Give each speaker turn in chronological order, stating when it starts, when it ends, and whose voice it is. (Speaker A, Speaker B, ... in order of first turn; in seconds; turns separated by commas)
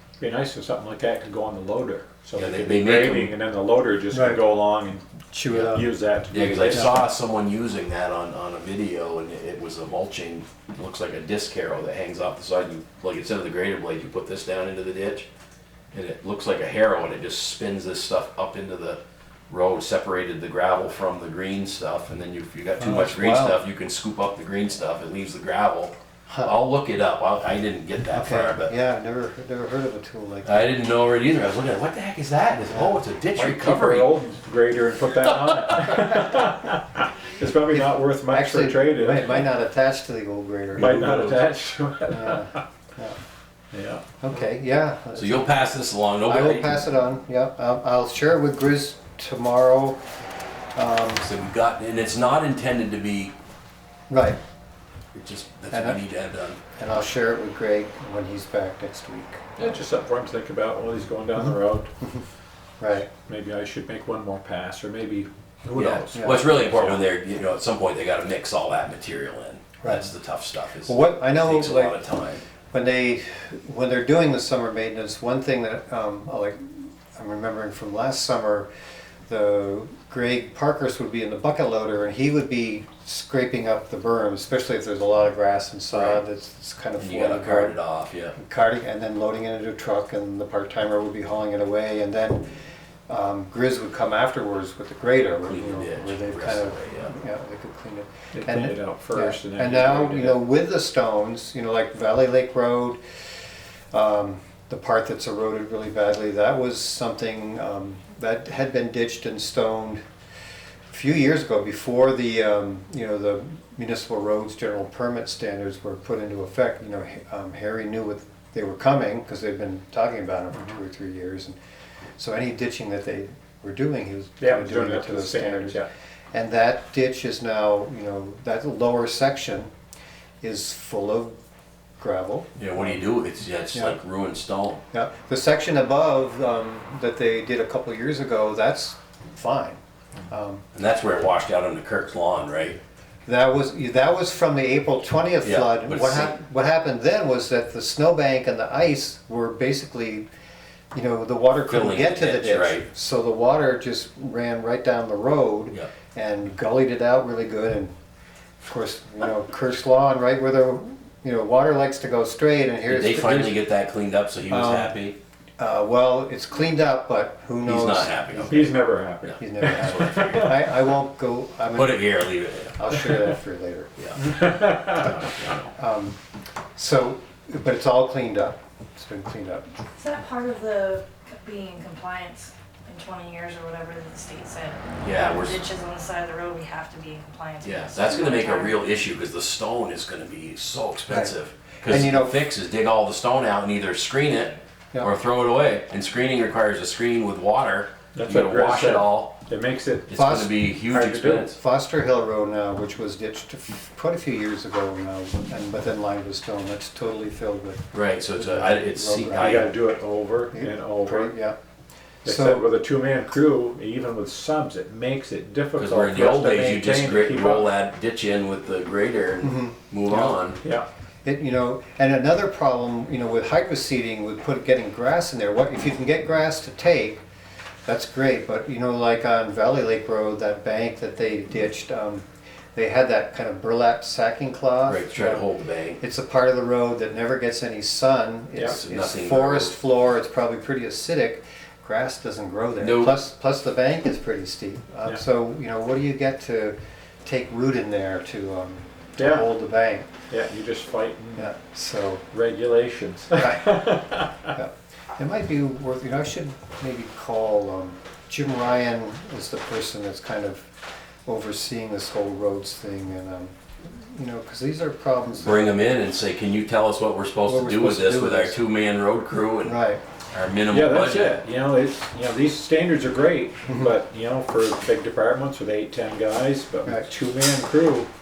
Speaker A: 0.2-5.0, Speaker B: 2.4-3.3, Speaker C: 4.1-4.4, Speaker C: 5.3-5.9, Speaker A: 5.7-7.1, Speaker B: 6.3-15.3, Speaker B: 15.9-28.7, Speaker C: 22.8-23.6, Speaker C: 28.1-30.7, Speaker B: 30.4-34.1, Speaker C: 32.7-33.0, Speaker A: 33.3-39.5, Speaker B: 35.1-36.2, Speaker C: 37.7-41.3, Speaker A: 40.8-42.6, Speaker B: 40.8-41.4, Speaker C: 42.1-43.2, Speaker A: 43.7-44.1, Speaker C: 44.2-45.7, Speaker B: 45.2-46.8, Speaker C: 46.2-50.0, Speaker C: 50.7-51.2, Speaker B: 51.1-53.3, Speaker C: 54.1-54.4, Speaker B: 55.1-56.6, Speaker C: 55.7-56.0, Speaker C: 56.8-59.5, Speaker A: 59.6-61.9, Speaker C: 61.4-62.2, Speaker C: 62.8-63.1, Speaker A: 63.2-67.0, Speaker B: 65.7-72.4, Speaker C: 66.1-66.6, Speaker C: 69.8-70.1, Speaker C: 70.8-72.0, Speaker C: 72.7-78.7, Speaker C: 79.3-87.8, Speaker B: 85.9-86.2, Speaker B: 87.0-88.4, Speaker C: 88.4-92.5, Speaker C: 93.1-103.0, Speaker B: 95.4-97.1, Speaker A: 98.3-100.4, Speaker C: 103.9-110.0, Speaker C: 110.9-121.6, Speaker C: 122.2-129.7, Speaker A: 124.4-125.9, Speaker C: 130.4-131.3, Speaker C: 132.0-133.0, Speaker B: 132.6-134.8, Speaker C: 134.9-140.6, Speaker B: 140.7-142.8, Speaker C: 143.3-150.2, Speaker B: 145.4-146.4, Speaker C: 150.9-157.9, Speaker B: 151.7-152.9, Speaker C: 158.6-163.6, Speaker B: 162.8-165.2, Speaker C: 164.5-165.0, Speaker C: 165.6-168.7, Speaker B: 167.6-170.6, Speaker A: 168.5-170.5, Speaker C: 169.4-172.1, Speaker B: 171.7-172.8, Speaker C: 172.8-174.6, Speaker B: 174.0-174.5, Speaker A: 174.6-175.2, Speaker B: 175.2-175.7, Speaker C: 175.7-176.2, Speaker C: 176.8-179.7, Speaker D: 180.0-188.8, Speaker B: 185.0-185.6, Speaker B: 187.6-199.4, Speaker C: 191.1-192.5, Speaker A: 198.1-200.2, Speaker B: 200.1-201.6, Speaker C: 200.2-200.5, Speaker A: 200.9-201.5, Speaker C: 201.5-209.8, Speaker B: 207.9-209.7, Speaker A: 209.3-211.3, Speaker C: 210.5-211.6, Speaker A: 212.2-217.7, Speaker C: 212.2-212.7, Speaker B: 215.8-220.6, Speaker C: 219.4-220.4, Speaker A: 220.6-220.8, Speaker C: 221.2-227.2, Speaker C: 227.8-235.4, Speaker B: 234.8-236.0, Speaker C: 236.0-250.1, Speaker B: 238.6-239.8, Speaker B: 242.8-243.2, Speaker A: 249.2-249.5, Speaker A: 250.3-251.5, Speaker C: 251.3-252.2, Speaker A: 252.3-254.5, Speaker C: 253.3-254.0, Speaker C: 254.5-260.7, Speaker C: 261.3-265.7, Speaker B: 265.4-269.8, Speaker C: 267.5-268.6, Speaker C: 269.6-270.0, Speaker B: 270.3-271.4, Speaker A: 270.7-278.1, Speaker C: 273.7-273.9